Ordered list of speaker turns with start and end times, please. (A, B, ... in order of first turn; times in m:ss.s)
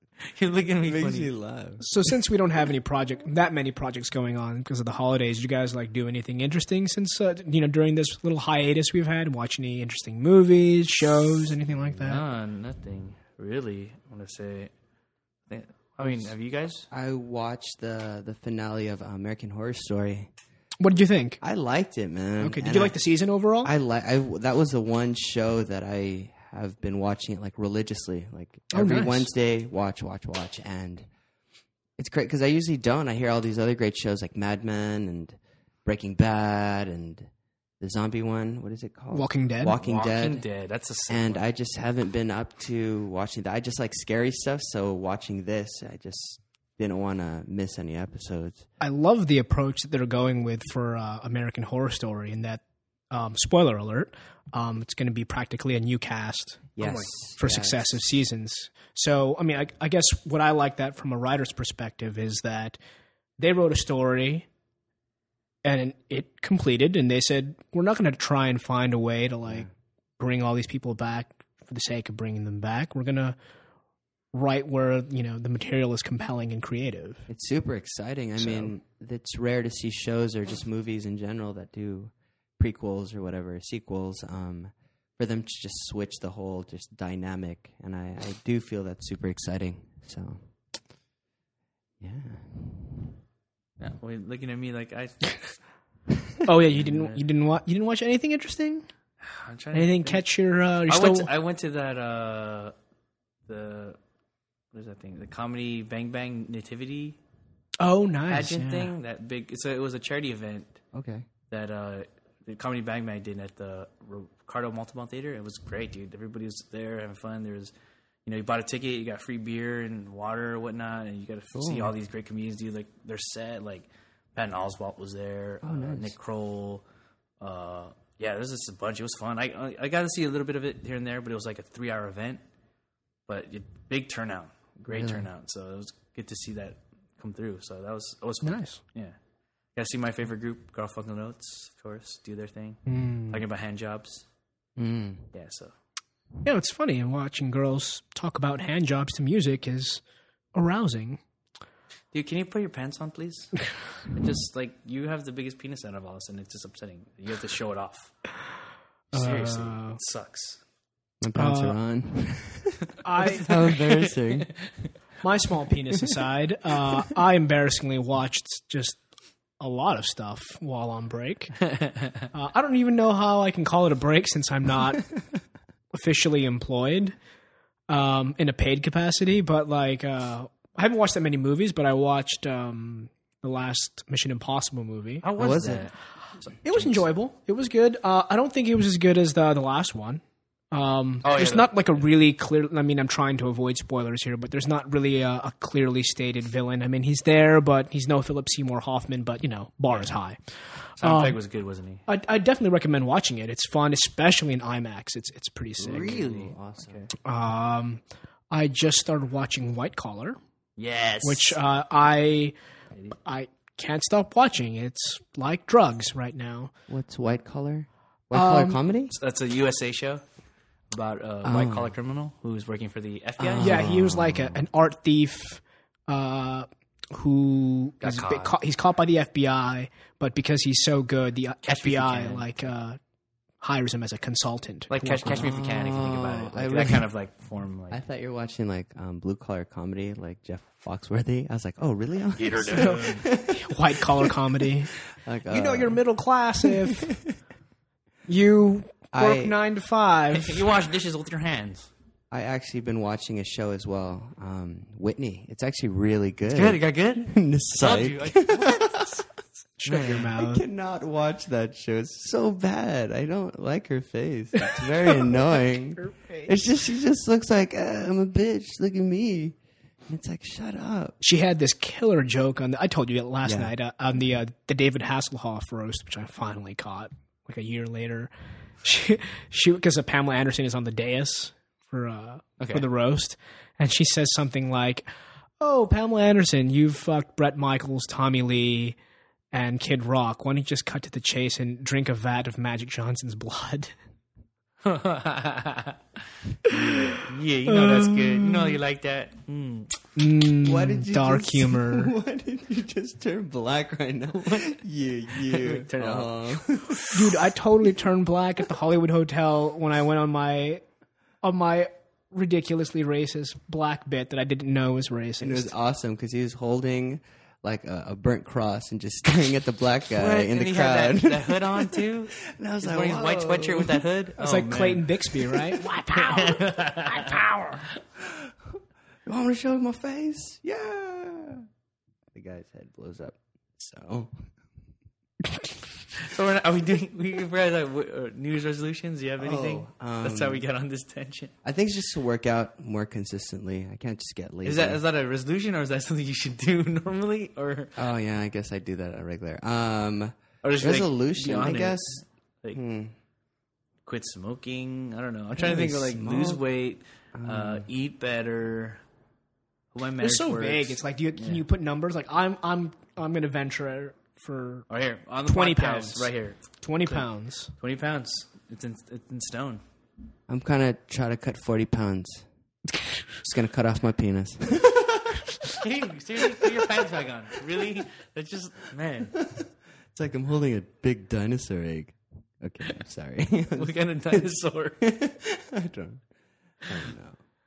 0:00.3-0:01.3 A
0:00.8-0:01.9 B
0:01.8-0:12.2 C
0:12.0-0:14.7 A
0:15.5-0:16.9 A
0:16.9-0:20.3 B
0:20.8-0:21.4 C
0:21.4-0:23.0 B
0:22.4-0:23.7 C
0:23.6-0:31.0 B
0:28.7-0:29.3 C
0:32.0-0:37.3 B
0:37.8-0:40.4 B
0:39.1-0:39.8 C
0:39.8-0:41.4 A
0:41.1-0:48.6 B
0:48.8-1:02.8 C
0:56.8-0:58.1 B
1:03.4-1:04.4 C
1:05.6-1:09.7 C
1:10.2-1:13.4 C
1:14.3-1:17.3 C
1:17.3-1:30.4 B
1:18.4-1:18.7 C
1:32.0-1:33.1 B
1:33.8-1:35.5 A
1:36.4-1:38.8 C
1:36.6-1:37.2 A
1:39.2-1:40.2 A
1:39.7-1:41.3 C
1:40.9-1:42.7 A
1:43.5-1:44.0 A
1:44.7-1:47.2 A
1:47.8-1:49.0 C
1:48.3-1:50.8 A
1:50.9-1:51.2 B
1:51.5-1:57.7 A
1:58.2-2:06.8 A
2:01.5-2:01.9 B
2:05.6-2:06.1 B
2:07.4-2:12.4 A
2:13.3-2:19.1 A
2:14.8-2:15.3 B
2:18.4-2:18.8 C
2:19.8-2:24.2 A
2:22.9-2:23.4 C
2:24.8-2:25.3 B
2:25.3-2:25.7 A
2:26.4-2:30.0 C
2:30.5-2:31.2 C
2:32.1-2:38.1 A
2:39.1-2:40.6 A
2:39.1-2:40.0 C
2:41.2-2:44.5 B
2:41.3-2:41.8 C
2:43.0-2:43.7 C
2:43.1-2:44.9 A
2:45.2-2:49.0 C
2:49.6-2:51.6 C
2:51.7-2:52.2 A
2:52.3-2:55.1 C
2:55.9-2:57.1 C
2:57.9-3:05.2 C
3:05.2-3:07.0 A
3:05.4-3:05.9 B
3:06.6-3:10.2 C
3:10.7-3:20.4 C
3:11.2-3:11.8 A
3:21.0-3:22.0 A
3:21.0-3:21.4 C
3:22.1-3:26.3 C
3:25.8-3:27.0 B
3:25.9-3:27.1 A
3:27.2-3:30.4 C
3:30.8-3:31.6 A
3:31.2-3:32.5 C
3:33.2-3:36.7 C
3:36.9-3:39.1 B
3:38.3-3:38.8 C
3:39.1-3:40.2 A
3:40.9-3:43.8 A
3:41.4-3:42.0 B
3:43.4-3:44.7 B
3:43.6-3:53.0 C
3:48.0-3:48.6 A
3:51.6-3:52.6 A
3:53.6-3:55.4 C
3:54.9-3:58.0 A
3:55.2-3:57.1 B
3:57.9-4:04.3 B
4:02.4-4:03.2 A
4:02.7-4:04.9 C
4:05.2-4:06.0 B
4:05.4-4:07.1 C
4:08.3-4:10.7 C
4:09.1-4:09.6 B
4:10.3-4:11.9 A
4:12.3-4:19.2 B
4:16.5-4:19.2 A
4:19.8-4:20.6 C
4:19.8-4:20.3 A
4:19.9-4:29.6 B
4:24.7-4:26.6 C
4:30.1-4:31.2 B
4:31.2-4:38.3 C
4:33.4-4:33.7 B
4:38.8-4:45.0 C
4:42.6-4:42.9 A
4:45.6-4:49.0 C
4:49.5-4:53.9 C
4:54.8-4:56.0 A
4:56.6-4:57.0 C
4:56.6-4:59.9 A
4:57.7-4:58.8 C
5:00.2-5:02.1 C
5:00.6-5:06.9 B
5:04.4-5:04.8 A
5:05.4-5:07.0 A
5:07.1-5:10.8 C
5:11.4-5:15.7 C
5:15.4-5:24.0 B
5:20.1-5:27.4 A
5:24.4-5:25.8 C
5:25.8-5:27.7 B
5:29.2-5:31.6 B
5:32.3-5:34.3 B
5:36.2-5:41.5 A
5:39.4-5:40.6 B
5:41.6-5:45.0 B
5:44.6-5:48.0 A
5:48.0-5:52.2 B
5:50.6-5:52.8 A
5:52.7-5:53.1 B
5:54.0-5:59.0 A
5:55.5-5:56.6 B
5:57.3-5:57.8 B
5:59.9-6:01.6 A
6:00.2-6:04.8 C
6:04.9-6:07.3 A
6:05.4-6:07.7 C
6:07.8-6:09.8 A
6:10.5-6:12.4 B
6:13.4-6:15.2 B
6:15.8-6:19.3 A
6:19.4-6:19.6 B
6:20.1-6:26.2 B
6:23.7-6:25.0 A
6:26.8-6:27.4 B